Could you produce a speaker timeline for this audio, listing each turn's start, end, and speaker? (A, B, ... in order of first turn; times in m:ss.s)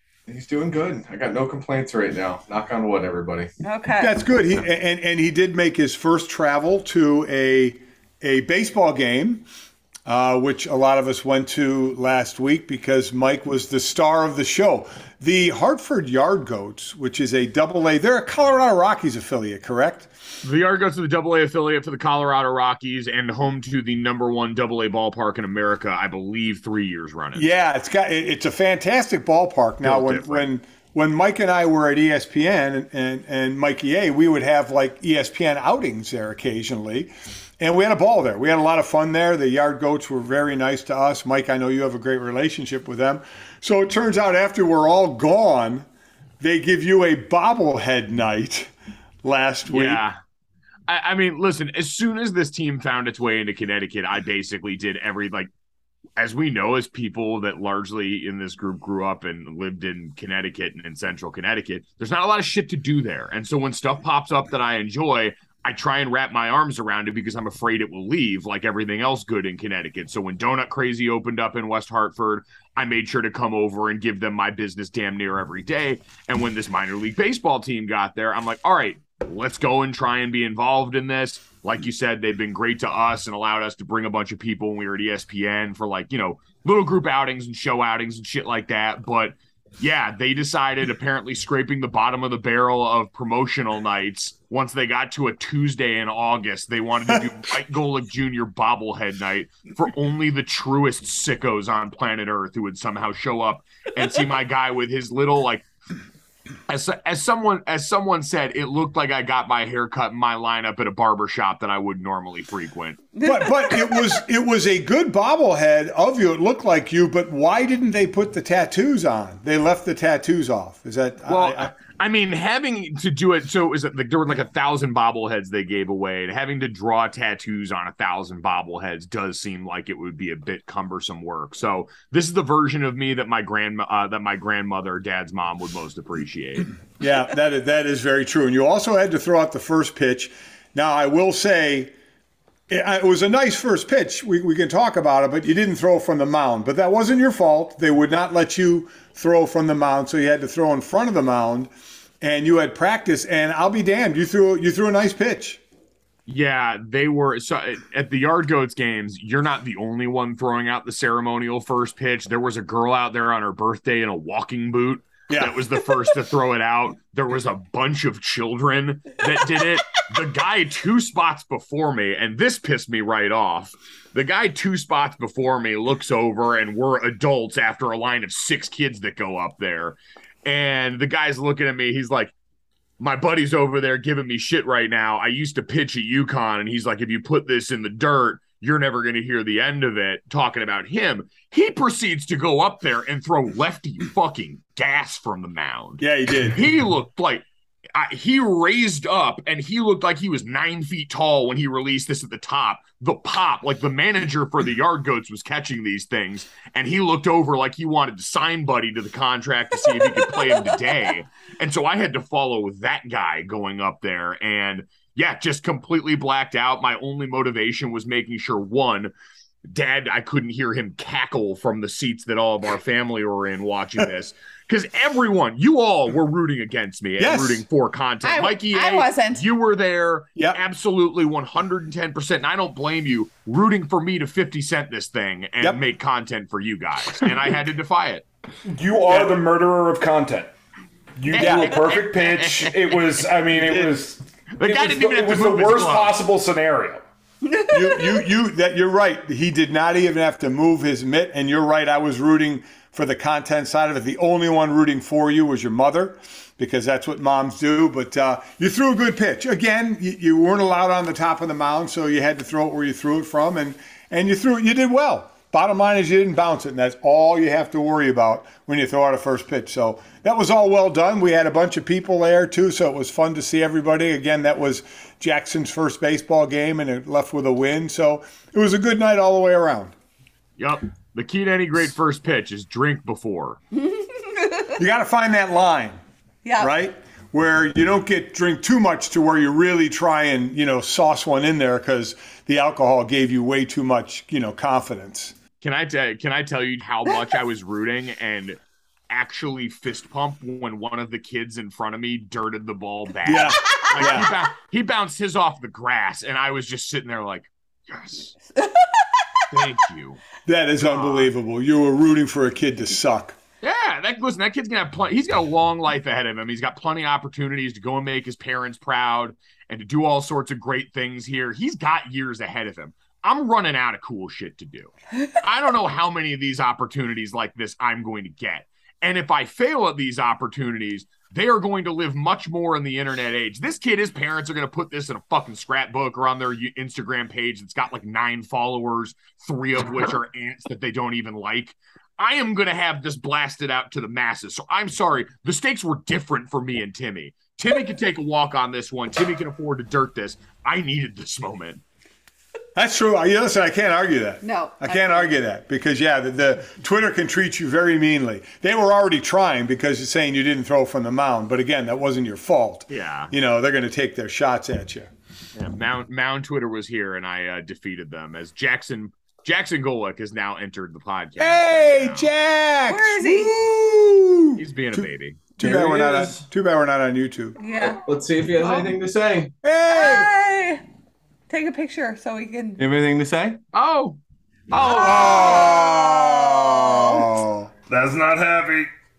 0:00.3-0:03.5 A
0:03.6-0:04.1 B
0:04.0-0:09.4 C
0:10.0-0:20.1 C
0:20.4-0:27.5 D
0:27.3-0:45.9 C
0:29.8-0:30.5 D
0:46.4-0:48.7 C
0:49.2-0:50.0 C
0:49.7-0:50.2 D
0:50.9-0:55.5 D
0:56.2-1:45.6 D
1:46.7-1:53.0 D
1:53.1-1:54.2 B
1:53.2-2:01.7 C
2:01.3-2:16.7 D
2:17.0-2:21.9 C
2:22.7-2:35.6 C
2:36.2-3:02.3 D
2:45.3-2:45.8 C
3:03.0-3:39.1 D
3:16.0-3:16.6 C
3:39.6-3:58.2 D
3:47.2-3:47.6 C
3:48.2-3:49.4 B
3:58.7-4:00.5 E
3:59.1-3:59.4 C
4:01.2-4:07.0 E
4:01.3-4:03.2 D
4:01.4-4:01.8 C
4:03.6-4:04.0 C
4:04.5-4:06.2 D
4:07.4-4:08.2 B
4:07.7-4:39.9 C
4:40.6-4:43.6 D
4:43.7-4:44.7 B
4:44.8-4:46.0 C
4:46.4-4:46.7 B
4:46.6-4:55.3 C
4:55.6-4:58.6 D
4:59.1-5:08.3 D
5:03.2-5:04.3 C
5:04.0-5:04.2 B
5:08.6-5:09.0 B
5:09.5-5:10.2 D
5:10.4-5:13.4 C
5:10.8-5:11.3 D
5:13.6-5:51.8 D
5:52.7-6:05.1 C
5:54.4-5:55.4 B
6:02.9-6:03.3 D
6:05.5-6:12.3 D
6:11.4-6:17.6 C
6:12.9-6:13.5 B
6:14.6-6:15.4 D
6:15.6-6:16.4 A
6:17.6-6:18.0 B
6:17.8-6:19.5 A
6:19.6-6:20.3 C
6:19.9-6:20.8 B
6:21.5-6:22.8 B
6:22.8-6:23.6 A
6:23.7-6:24.2 D
6:24.7-6:25.6 D
6:24.7-6:27.4 B
6:24.8-6:27.7 C
6:27.9-6:28.9 E